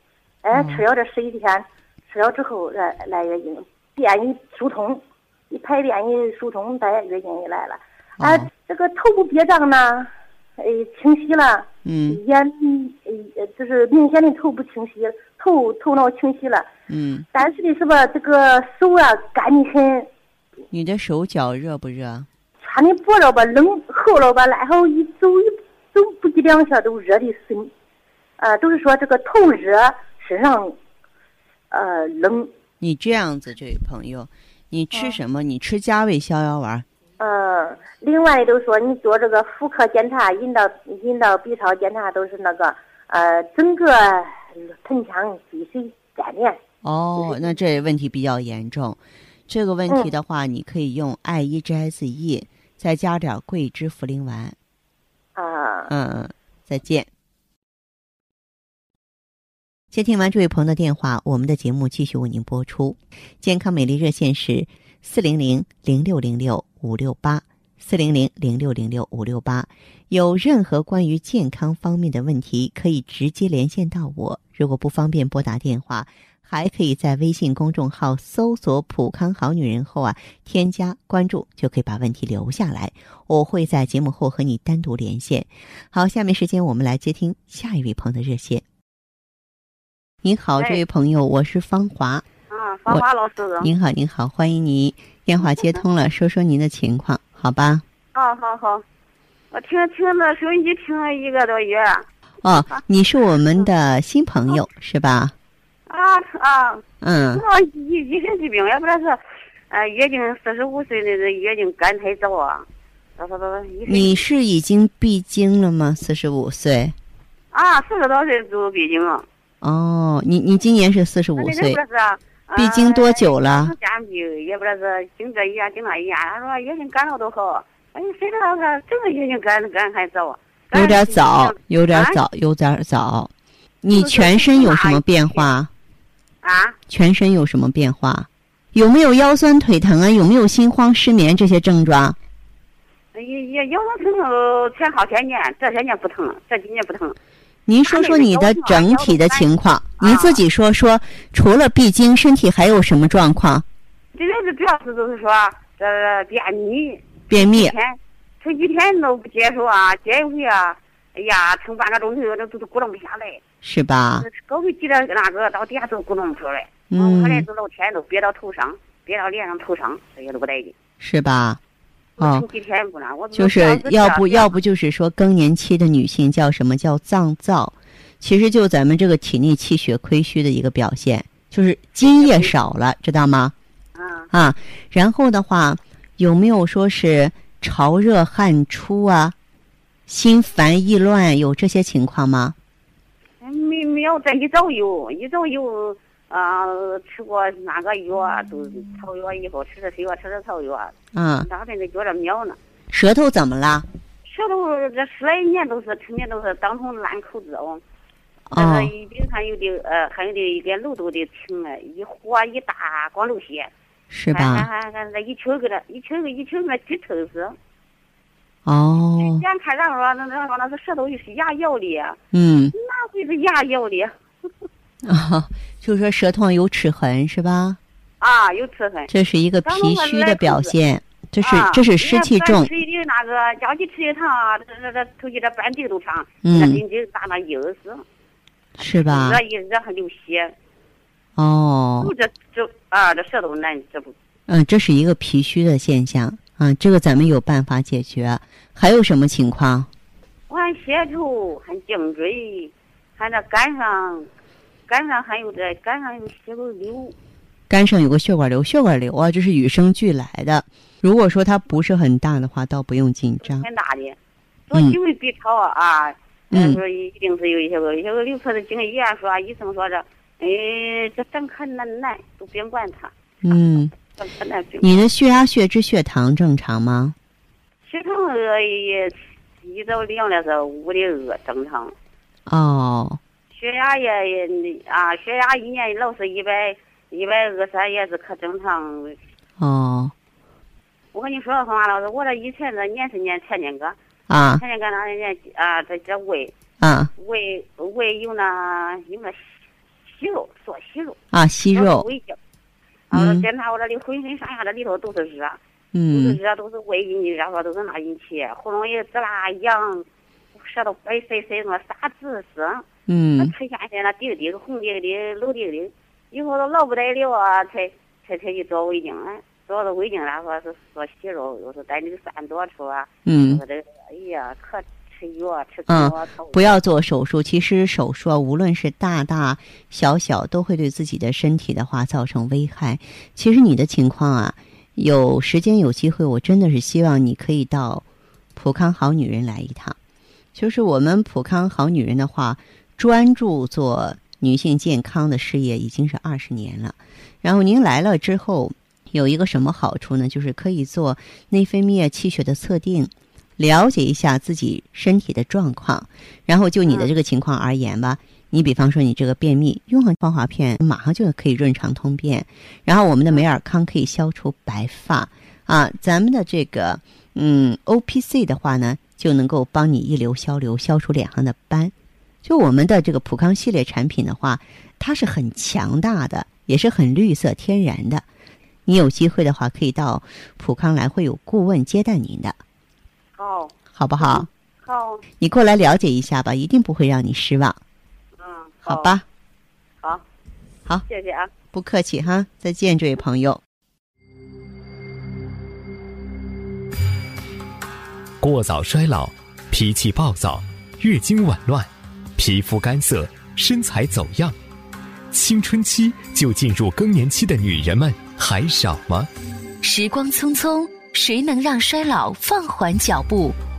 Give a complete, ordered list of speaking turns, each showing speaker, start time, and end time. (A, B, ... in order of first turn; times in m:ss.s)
0:00.4-0:16.7 A
0:00.5-0:00.8 B
0:08.2-0:08.5 B
0:11.8-0:12.2 B
0:16.9-0:17.3 B
0:17.3-0:20.1 A
0:20.7-0:22.3 B
0:22.6-0:27.7 A
0:28.4-0:30.8 A
0:31.7-0:32.5 A
0:32.8-0:36.9 B
0:34.9-0:35.2 A
0:37.2-0:46.6 A
0:46.8-0:54.6 B
0:55.4-0:55.9 A
0:55.9-0:57.1 B
0:59.9-1:28.6 B
1:30.2-1:32.2 B
1:32.5-1:33.7 C
1:33.6-1:37.8 B
1:38.2-1:38.8 C
1:39.5-1:42.8 C
1:42.4-1:45.4 B
1:45.9-1:49.2 C
1:47.0-1:47.4 B
1:49.7-1:52.7 C
1:53.2-1:54.2 C
1:53.8-1:57.0 B
1:57.5-1:59.3 C
1:59.6-2:01.8 B
2:01.4-2:12.2 C
2:02.6-2:03.7 B
2:10.7-2:13.3 B
2:13.8-2:15.7 B
2:13.9-2:15.5 C
2:16.4-2:16.8 C
2:16.9-2:22.2 B
2:23.1-2:27.2 C
2:27.7-2:33.7 B
2:27.9-2:29.5 C
2:30.0-2:30.4 C
2:34.2-2:43.4 C
2:37.3-2:37.7 B
2:43.6-2:44.3 B
2:44.2-2:50.8 C
2:46.9-2:47.5 B
2:51.0-2:51.6 B
2:52.2-2:54.5 C
2:52.2-2:52.5 B
2:53.3-3:03.6 B
3:02.0-3:02.5 C
3:04.0-3:04.3 C
3:04.3-3:09.4 B
3:10.1-3:12.6 B
3:13.4-3:22.6 C
3:21.1-3:21.5 B
3:22.9-3:23.9 B
3:24.2-3:27.8 C
3:28.5-3:28.9 B
3:28.6-3:33.7 C
3:34.1-3:34.7 B
3:34.3-3:37.6 C
3:38.6-3:39.4 B
3:39.2-3:42.2 C
3:42.3-3:42.7 B
3:42.7-3:44.1 C
3:45.0-3:47.8 B
3:48.2-3:49.1 C
3:49.1-3:52.7 B
3:49.6-3:50.7 C
3:51.4-3:58.0 C
3:56.4-3:56.8 B
3:58.8-3:59.4 B
3:58.8-4:00.5 C
4:01.4-4:02.1 B
4:02.0-4:04.2 C
4:04.5-4:09.9 B
4:10.5-4:14.3 C
4:14.9-4:17.2 C
4:17.7-4:23.7 B
4:23.4-4:24.2 C
4:24.7-4:33.1 C
4:26.5-4:26.8 B
4:33.4-4:33.9 B
4:34.2-4:35.0 C
4:34.8-4:37.2 B
4:37.9-4:41.9 C
4:42.5-4:43.2 B
4:43.5-4:49.2 C
4:49.6-4:50.1 B
4:51.1-4:54.0 C
4:54.3-4:54.6 B
4:54.6-4:56.5 C
4:56.8-4:57.1 B
4:57.2-5:01.2 C
5:01.3-5:02.1 B
5:01.7-5:02.4 C
5:03.1-5:05.6 C
5:03.1-5:03.4 B
5:05.9-5:06.4 B
5:06.1-5:12.9 C
5:13.1-5:13.5 B
5:13.4-5:26.8 C
5:23.3-5:23.6 B
5:25.9-5:40.0 B
5:40.6-6:11.9 B
5:56.9-5:57.1 C
6:12.4-6:18.3 B
6:18.9-6:22.6 B
6:23.4-6:25.2 C
6:23.9-6:24.5 B
6:25.4-6:27.8 B
6:28.4-6:29.2 C
6:28.9-6:29.2 B
6:31.1-6:31.5 C
6:31.7-6:33.6 B
6:38.4-6:44.6 D
6:45.3-6:49.3 D
6:49.8-6:53.6 E